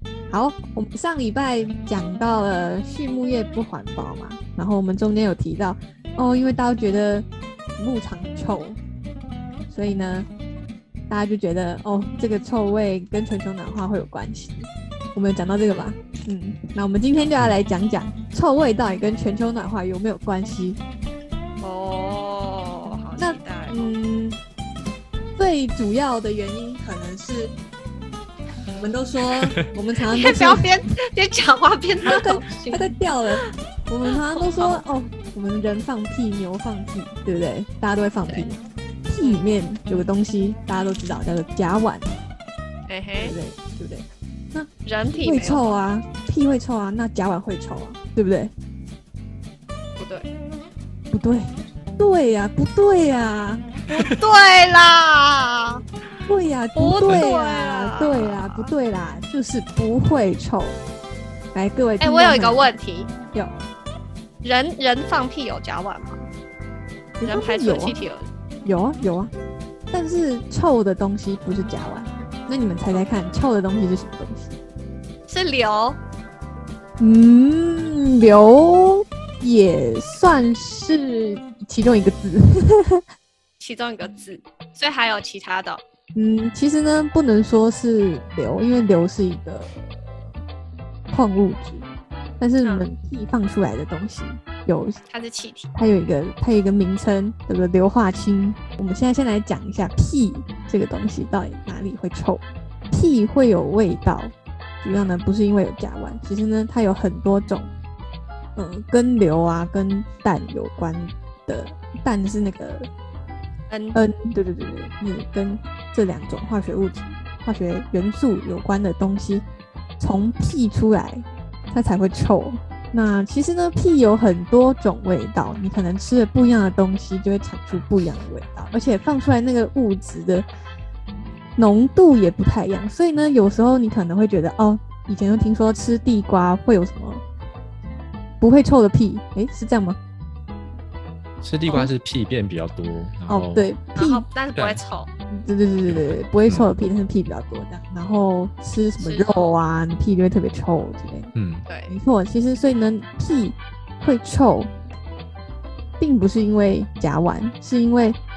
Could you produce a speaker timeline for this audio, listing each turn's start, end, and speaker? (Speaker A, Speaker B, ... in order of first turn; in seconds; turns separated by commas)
Speaker A: 0.3-7.3, Speaker A: 7.8-8.8, Speaker A: 9.7-10.3, Speaker A: 11.1-20.8, Speaker B: 15.7-15.9, Speaker B: 21.6-23.9, Speaker A: 23.2-24.4, Speaker A: 25.4-27.6, Speaker A: 28.8-30.7, Speaker B: 30.1-33.5, Speaker A: 32.0-42.1, Speaker B: 34.3-34.9, Speaker B: 38.3-38.5, Speaker B: 42.9-43.4, Speaker A: 43.2-48.5, Speaker B: 44.9-45.8, Speaker B: 50.0-50.3, Speaker A: 51.1-53.7, Speaker B: 53.9-55.8, Speaker A: 56.2-60.8, Speaker B: 56.8-58.7, Speaker A: 61.5-62.7, Speaker B: 62.0-63.1, Speaker A: 63.3-63.6, Speaker B: 64.4-66.3, Speaker A: 67.2-68.0, Speaker B: 67.2-68.3, Speaker A: 68.6-69.3, Speaker A: 69.9-74.6, Speaker B: 75.3-76.0, Speaker A: 77.0-83.0, Speaker B: 83.6-85.8, Speaker A: 86.2-90.0, Speaker A: 91.1-91.9, Speaker A: 92.4-95.0, Speaker B: 95.1-95.7, Speaker A: 95.8-107.7, Speaker A: 108.6-112.9, Speaker B: 113.7-114.0, Speaker A: 113.9-119.5, Speaker A: 120.0-130.5, Speaker A: 131.6-137.2, Speaker A: 138.4-140.0, Speaker C: 141.4-143.7, Speaker A: 143.3-144.2, Speaker B: 143.9-145.1, Speaker C: 144.6-144.8, Speaker A: 145.3-151.3, Speaker C: 145.9-146.7, Speaker B: 149.0-149.5, Speaker C: 151.4-151.7, Speaker B: 151.7-152.0, Speaker A: 151.9-154.7, Speaker A: 156.0-158.2